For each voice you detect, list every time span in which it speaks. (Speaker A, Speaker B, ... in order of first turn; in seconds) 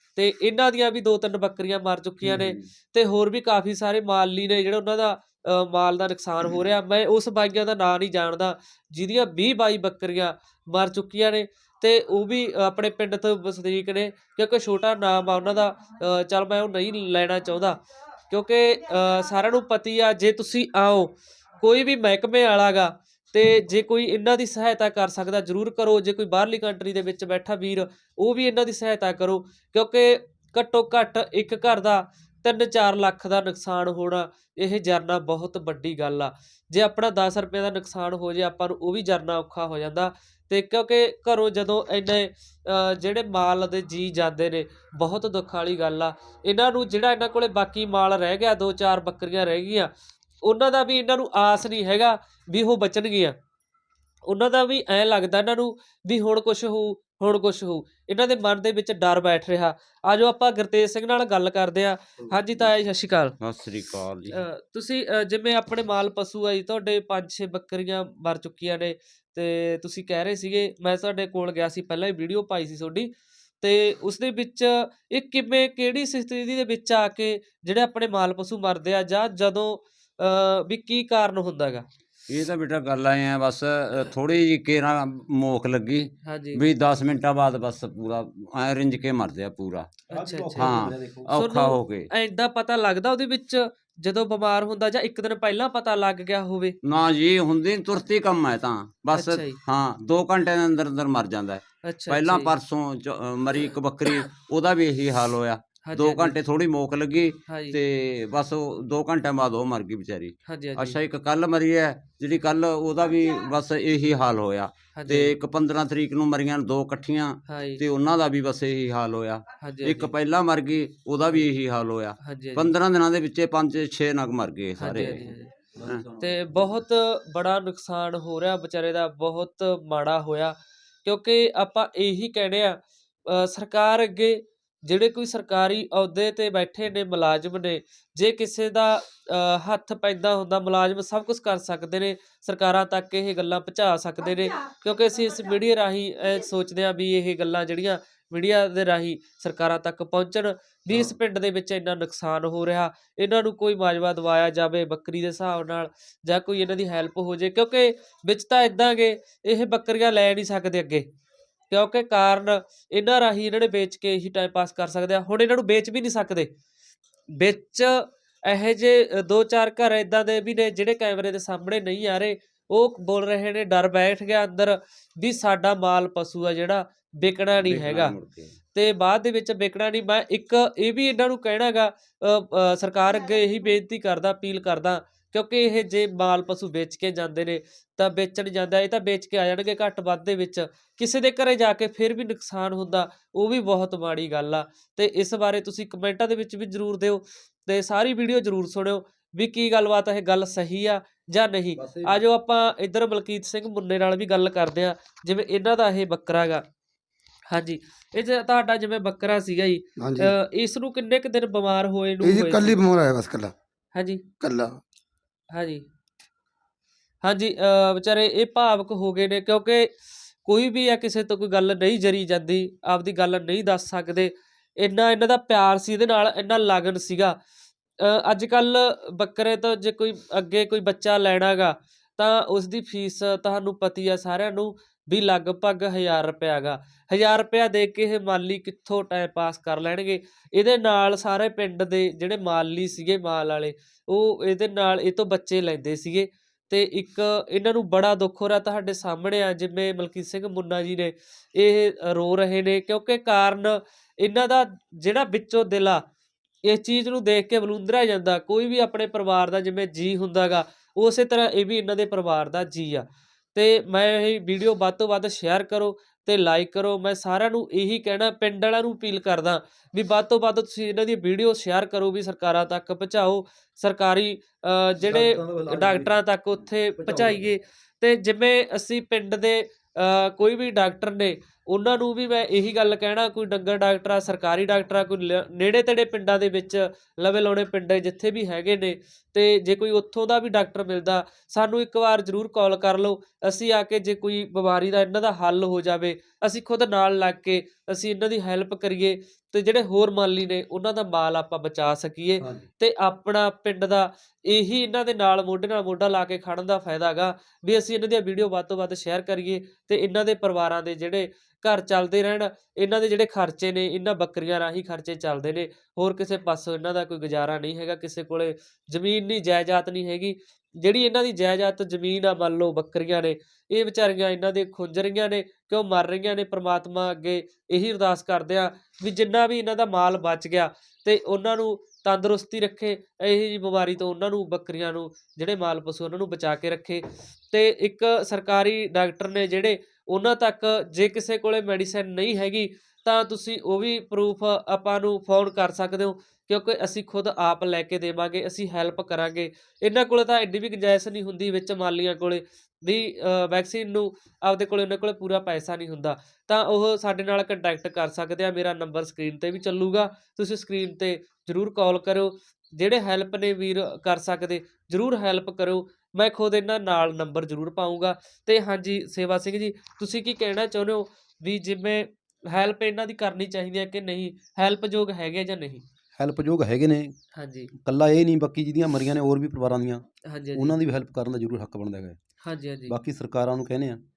Speaker A: 0.2-49.9, 50.4-53.4, 54.3-63.4, 64.3-81.9, 86.2-86.6, 90.1-90.8, 91.3-96.8, 99.1-99.6, 101.8-102.5, 105.8-106.3, 107.5-107.8, 110.5-111.0, 115.0-115.3, 117.5-117.8, 119.6-120.1, 122.2-122.7, 124.8-125.5, 126.2-161.1, 161.7-166.5, 167.3-178.2, 178.7-206.6, 207.5-212.8, 213.9-214.2, 215.5-215.8, 217.2-219.9, 220.4-227.4, 228.0-256.0, 256.6-375.8, 377.4-377.7, 380.3-380.8, 382.4-383.0
Speaker B: 2.2-2.6, 90.1-91.3, 125.8-126.8, 201.8-202.2, 275.0-277.5, 302.4-302.7, 376.2-377.1, 377.8-382.2, 382.9-384.0
Speaker C: 63.4-64.4, 82.3-89.9, 90.5-92.1, 96.8-125.3, 177.6-178.6
Speaker D: 210.0-210.3, 212.2-213.5, 214.4-214.8